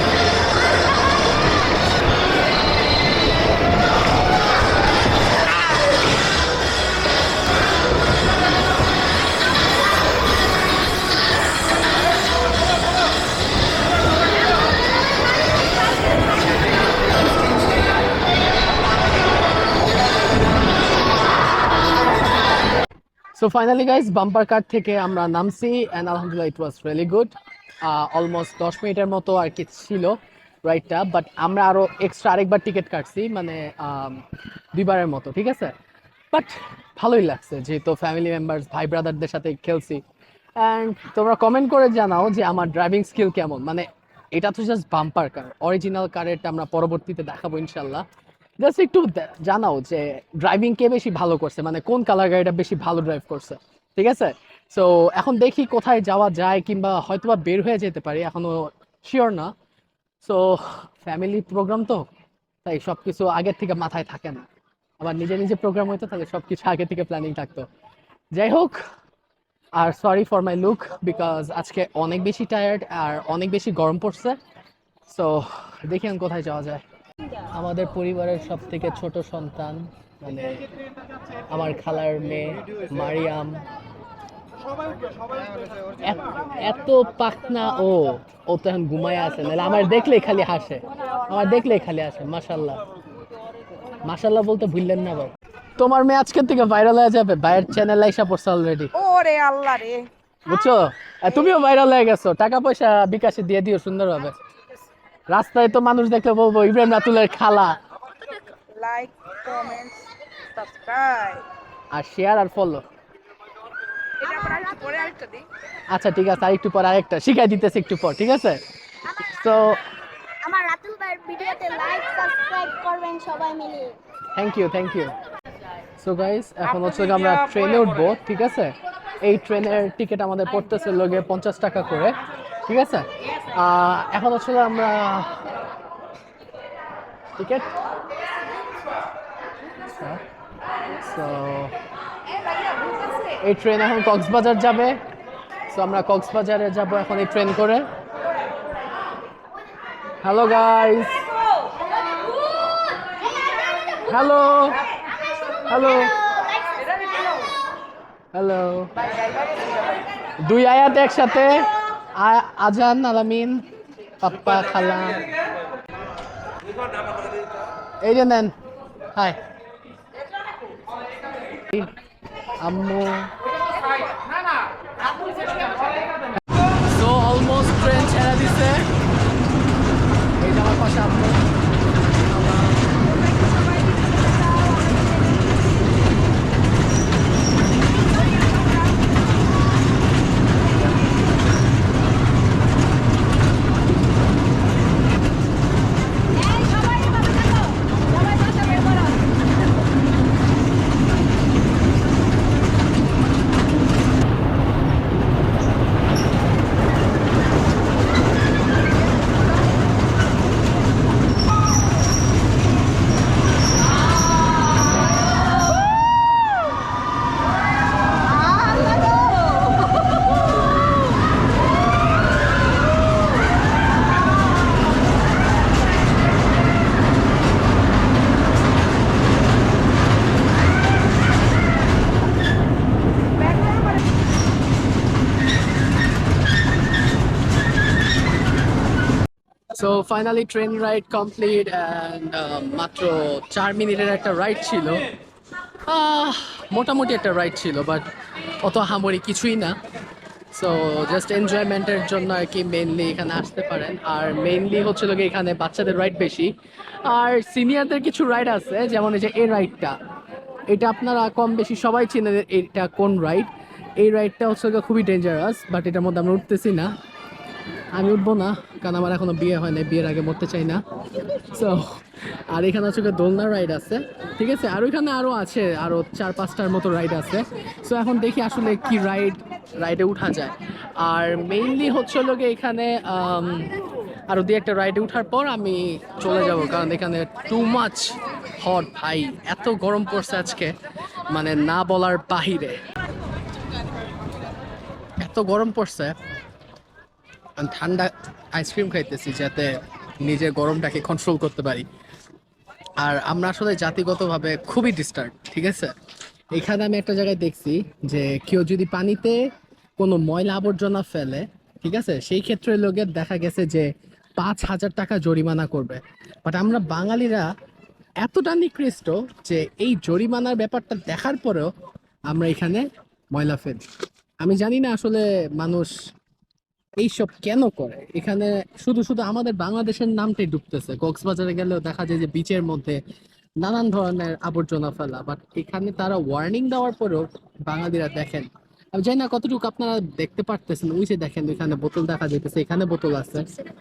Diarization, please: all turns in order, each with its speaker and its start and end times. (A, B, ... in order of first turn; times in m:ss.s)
0:23.4-0:35.7 A
0:36.3-0:40.0 A
0:40.6-0:48.0 A
0:48.6-0:59.5 A
1:00.2-1:02.0 A
1:02.6-1:04.5 A
1:05.0-1:07.7 A
1:08.3-1:08.8 A
1:09.8-1:14.4 A
1:15.1-1:16.8 A
1:17.5-1:20.6 A
1:21.5-1:23.6 A
1:26.0-1:32.8 A
1:34.0-1:38.9 A
1:38.9-1:40.1 B
1:40.5-1:44.4 A
1:45.3-1:47.8 A
1:48.3-1:51.4 B
1:51.9-1:52.8 A
1:54.2-1:55.4 B
1:55.9-1:58.6 A
1:59.2-1:59.8 A
2:00.4-2:04.0 C
2:04.4-2:05.1 A
2:06.0-2:15.4 A
2:17.4-2:17.7 A
2:19.8-2:20.2 A
2:20.9-2:21.7 A
2:23.4-2:25.0 A
2:25.7-2:27.9 A
2:30.2-2:31.2 A
2:33.4-2:33.8 C
2:34.0-2:34.8 A
2:35.7-2:36.2 A
2:38.3-2:38.9 A
2:40.4-2:43.6 A
2:44.2-2:45.3 A
2:48.0-2:48.6 A
2:52.6-2:53.3 A
2:56.6-2:58.9 A
3:00.4-3:01.4 A
3:02.3-3:02.7 A
3:03.2-3:05.0 B
3:38.2-3:40.1 C
3:59.7-4:05.0 A
4:05.9-4:08.0 A
4:08.6-4:09.8 A
4:10.5-4:20.0 A
4:20.7-4:26.9 A
4:27.9-4:32.0 A
4:32.5-4:43.7 A
4:44.3-4:50.7 A
4:51.3-4:52.8 A
4:55.2-4:56.2 A
4:57.6-5:01.8 A
5:03.0-5:05.9 A
5:06.5-5:17.5 A
5:18.2-5:21.7 A
5:22.3-5:23.8 A
5:24.4-5:25.9 A
5:27.0-5:33.0 A
5:33.6-5:43.6 A